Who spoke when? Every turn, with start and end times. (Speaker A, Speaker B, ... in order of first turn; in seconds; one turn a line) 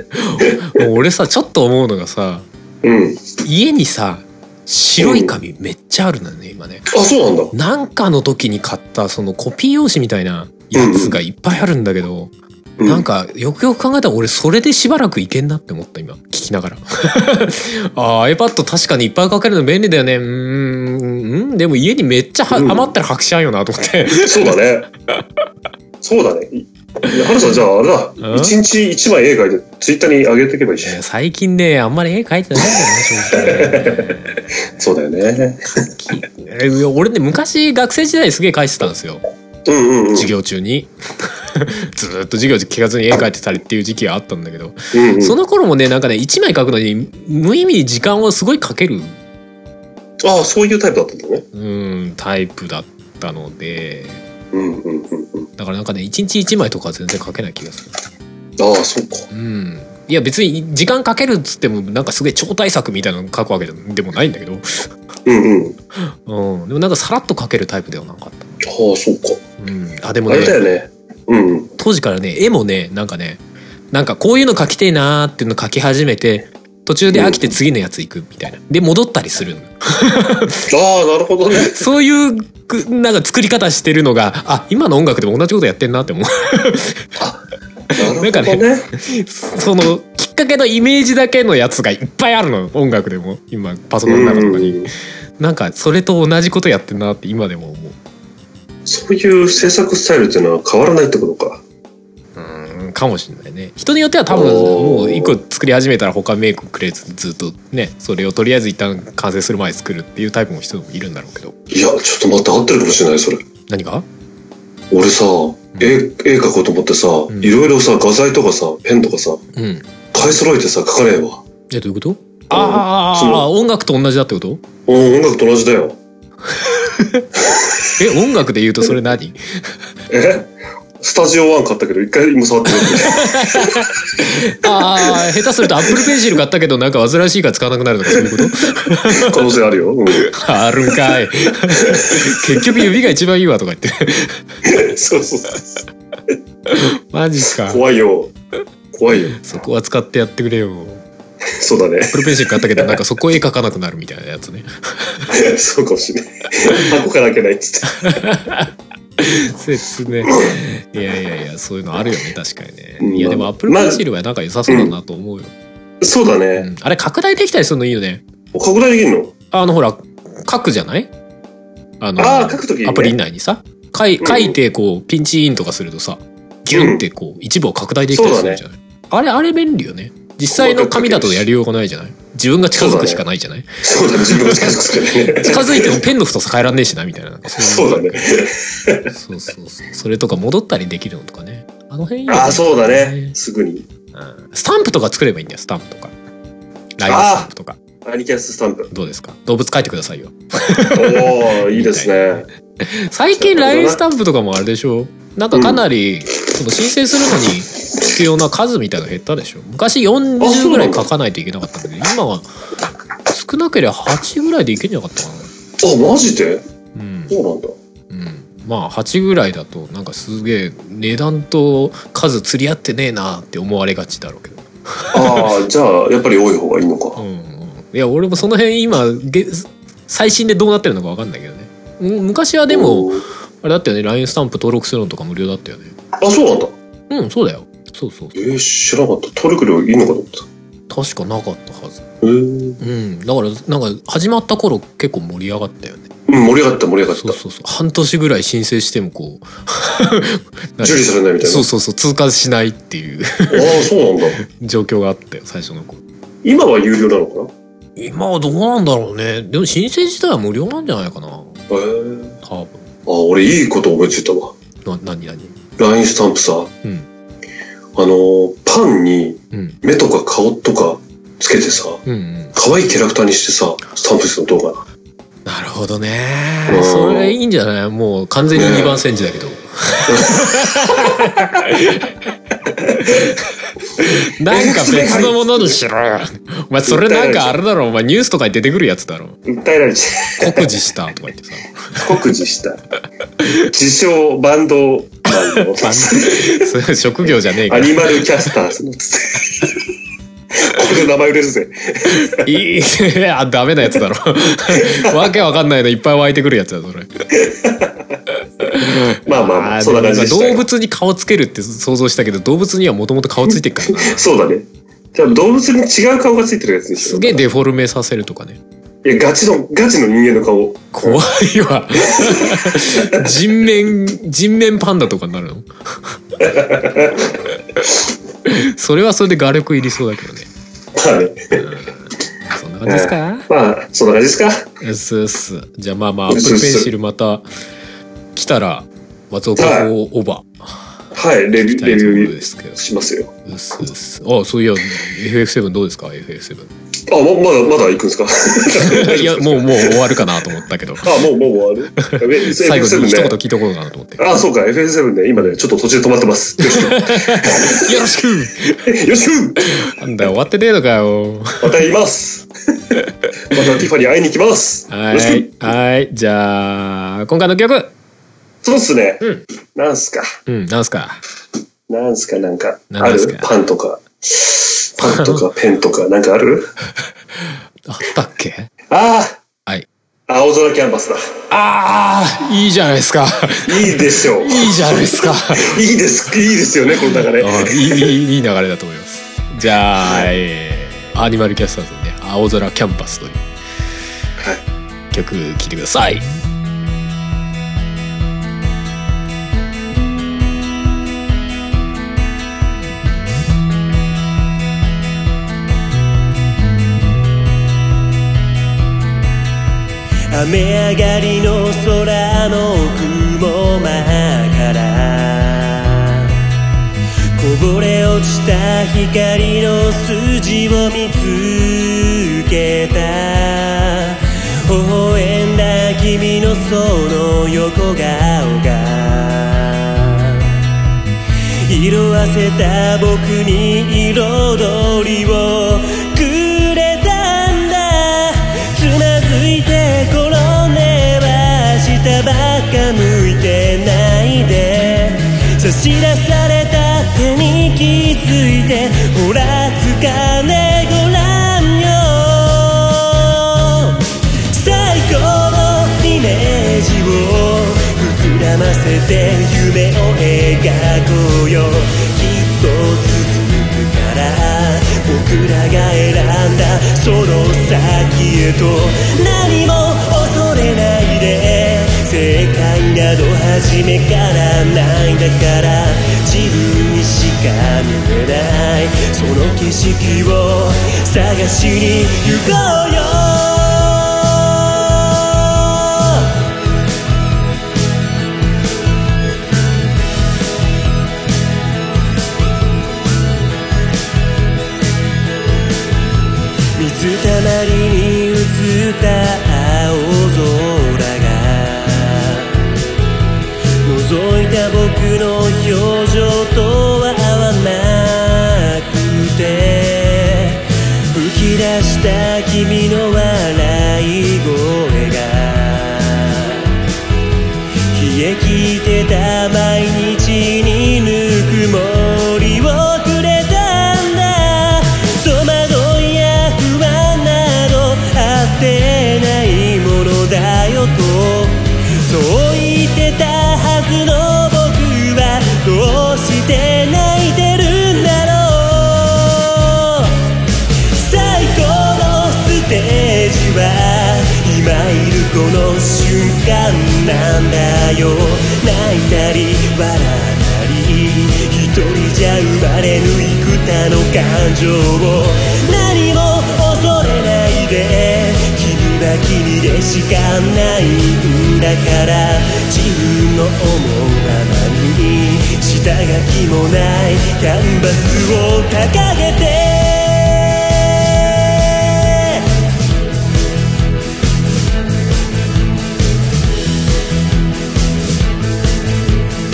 Speaker A: 0.1-2.5
Speaker B: 2.8-3.2
Speaker A: 3.4-6.9
Speaker B: 5.0-5.3
Speaker B: 6.9-7.5
Speaker A: 7.5-12.3
Speaker B: 10.8-11.2
Speaker B: 12.8-13.1
Speaker A: 12.8-24.5
Speaker B: 22.5-22.9
Speaker B: 24.1-24.9
Speaker B: 26.0-31.0
Speaker A: 28.2-28.6
Speaker A: 30.8-34.3
Speaker B: 33.4-34.0
Speaker B: 34.8-35.6
Speaker A: 35.9-39.2
Speaker B: 39.7-40.3
Speaker A: 40.1-49.1
Speaker B: 44.9-45.4
Speaker B: 50.2-51.5
Speaker A: 51.5-54.2
Speaker B: 54.5-55.5
Speaker A: 55.6-57.9
Speaker B: 58.6-59.3
Speaker A: 59.3-64.9
Speaker B: 65.3-65.8
Speaker A: 66.0-68.6
Speaker B: 68.6-69.4
Speaker A: 69.6-70.6
Speaker B: 70.3-71.7
Speaker A: 71.8-73.4
Speaker A: 73.9-80.7
Speaker B: 77.1-77.4
Speaker B: 80.7-81.9
Speaker A: 81.5-87.1
Speaker B: 87.9-88.9
Speaker A: 88.0-94.9
Speaker B: 94.1-94.9
Speaker A: 95.4-98.0
Speaker B: 98.9-101.6
Speaker A: 102.4-111.5
Speaker B: 104.3-105.4
Speaker B: 111.7-113.4
Speaker A: 113.7-114.0
Speaker B: 114.9-119.4
Speaker A: 117.3-117.6
Speaker A: 119.6-119.9
Speaker B: 120.1-121.4
Speaker A: 121.7-124.6
Speaker B: 122.5-123.5
Speaker B: 124.9-126.0
Speaker A: 126.8-127.3
Speaker A: 128.0-129.6
Speaker B: 130.1-130.5
Speaker B: 131.0-133.7
Speaker A: 132.8-139.4
Speaker B: 134.6-135.2
Speaker B: 139.1-140.3
Speaker A: 140.2-144.4
Speaker B: 141.8-142.3
Speaker B: 144.7-145.8
Speaker A: 146.7-147.8
Speaker B: 147.5-148.3
Speaker B: 148.9-149.4
Speaker A: 149.4-151.0
Speaker B: 151.5-153.0
Speaker A: 152.1-155.3
Speaker B: 155.3-158.1
Speaker A: 158.0-165.5
Speaker B: 163.0-164.0
Speaker B: 166.0-166.7
Speaker A: 166.6-168.2
Speaker B: 168.5-169.3
Speaker A: 169.5-171.1
Speaker A: 172.0-183.7
Speaker B: 172.2-173.2
Speaker B: 174.2-174.6
Speaker B: 176.7-177.0
Speaker B: 178.1-178.6
Speaker B: 180.5-181.4
Speaker B: 182.8-183.2
Speaker B: 183.8-186.0
Speaker A: 184.2-184.8
Speaker A: 185.4-188.3
Speaker B: 187.6-189.1
Speaker A: 189.1-193.3
Speaker B: 192.3-193.9
Speaker A: 194.2-196.1
Speaker A: 197.0-197.8
Speaker B: 197.1-197.5
Speaker B: 198.0-198.9
Speaker A: 198.9-212.5
Speaker B: 200.9-202.4
Speaker B: 203.4-204.0
Speaker B: 205.5-205.8
Speaker B: 210.4-211.1
Speaker A: 213.3-215.5
Speaker B: 215.8-216.6
Speaker A: 216.9-217.3
Speaker B: 217.3-217.7
Speaker A: 218.1-225.5
Speaker B: 225.1-227.2
Speaker A: 227.2-235.9
Speaker B: 232.7-233.2
Speaker B: 236.2-236.7
Speaker A: 237.1-238.6
Speaker B: 238.4-240.5
Speaker A: 240.9-242.0
Speaker B: 242.2-242.8
Speaker A: 242.8-246.1
Speaker B: 246.3-247.4
Speaker A: 247.1-253.8
Speaker B: 250.8-251.7
Speaker B: 253.5-254.4
Speaker A: 254.4-256.0
Speaker B: 256.4-257.5
Speaker A: 258.0-261.6
Speaker B: 261.7-262.4
Speaker A: 262.4-262.8
Speaker B: 263.1-264.5
Speaker A: 264.9-265.5
Speaker B: 265.8-266.7
Speaker B: 268.0-272.0
Speaker A: 272.1-272.5
Speaker B: 272.6-274.8
Speaker A: 275.4-282.1
Speaker B: 276.7-277.4
Speaker B: 278.6-279.0
Speaker B: 280.1-281.1
Speaker B: 282.8-283.3
Speaker A: 284.0-289.4
Speaker B: 284.5-285.8
Speaker B: 286.9-287.6
Speaker B: 289.5-290.7
Speaker A: 290.4-292.0
Speaker B: 292.0-292.8
Speaker B: 293.7-296.7
Speaker A: 295.8-298.2
Speaker B: 297.7-299.8
Speaker B: 300.6-302.4
Speaker A: 302.4-307.1
Speaker B: 304.8-305.2
Speaker B: 307.4-307.9
Speaker A: 308.7-314.3
Speaker B: 309.2-310.6
Speaker B: 314.0-317.4
Speaker A: 317.0-318.6
Speaker B: 319.0-321.2
Speaker A: 320.9-326.1
Speaker B: 322.1-322.8
Speaker B: 326.4-327.2
Speaker A: 328.5-330.5
Speaker B: 331.0-331.6
Speaker A: 331.6-333.5
Speaker B: 332.9-334.6
Speaker A: 334.8-337.4
Speaker B: 336.3-336.9
Speaker A: 338.4-340.9
Speaker B: 339.6-339.9
Speaker B: 341.1-343.3
Speaker A: 341.6-342.8
Speaker A: 343.5-346.7
Speaker B: 347.1-350.1
Speaker A: 348.8-351.1
Speaker B: 351.0-353.4
Speaker A: 352.0-354.2
Speaker B: 354.2-357.9
Speaker A: 356.6-358.9
Speaker B: 358.9-359.7
Speaker A: 359.6-361.7
Speaker B: 361.6-362.9
Speaker B: 363.5-365.5
Speaker A: 364.9-367.9
Speaker B: 368.6-369.2
Speaker B: 369.8-370.3
Speaker A: 370.5-371.2
Speaker B: 371.9-376.7
Speaker A: 372.9-373.5
Speaker A: 375.0-375.4
Speaker A: 377.9-378.7
Speaker B: 378.9-379.4
Speaker B: 380.3-381.2
Speaker A: 381.5-385.8
Speaker B: 383.7-388.1
Speaker A: 387.4-393.4
Speaker B: 390.0-390.3
Speaker A: 395.1-396.3
Speaker C: 410.3-416.4
Speaker C: 417.4-430.5
Speaker C: 431.7-486.4
Speaker C: 496.8-502.6
Speaker C: 503.9-516.7
Speaker C: 517.9-540.2
Speaker C: 540.9-572.5